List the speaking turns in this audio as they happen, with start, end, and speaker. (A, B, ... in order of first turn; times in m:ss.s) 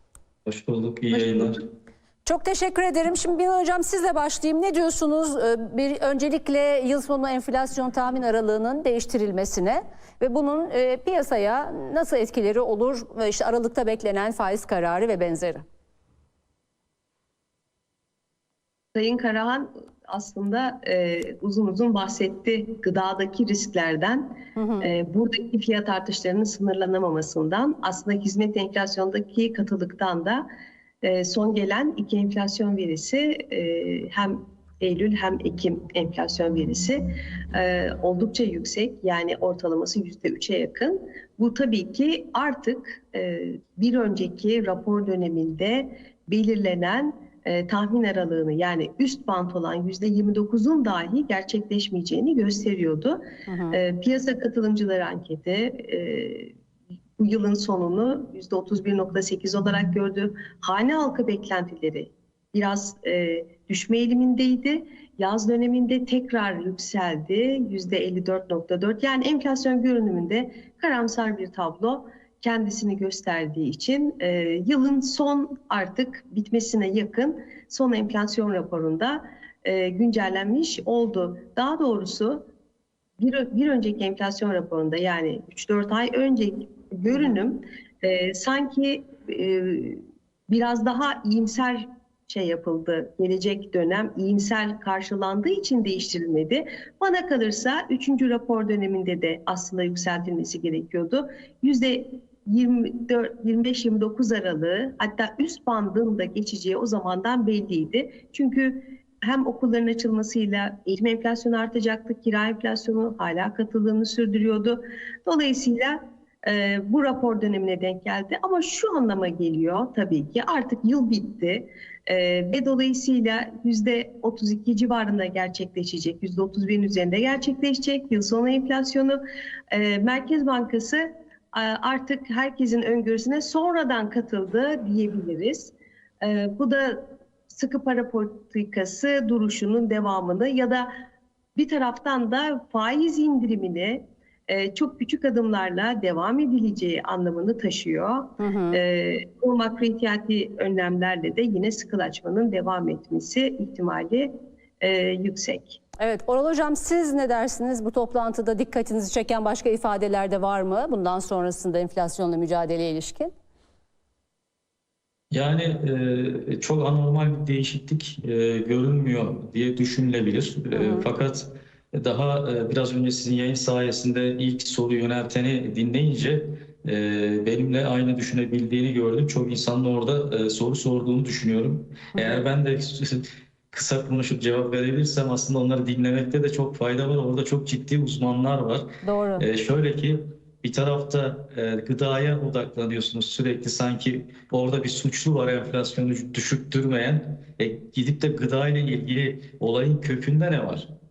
0:00.4-0:01.6 A
0:02.2-0:15.6 B
0:18.9-0:30.4 C
0:24.6-0:24.9 B
0:31.0-0:53.2 C
0:53.5-0:53.8 B
0:53.7-0:56.5 C
0:57.2-1:22.5 C
1:23.2-2:09.2 C
2:09.7-2:20.9 C
2:21.5-2:35.8 C
2:28.4-2:28.8 B
2:36.0-2:43.3 B
2:45.3-3:20.9 A
2:50.7-2:51.1 B
3:02.1-3:02.4 B
3:09.0-3:09.4 B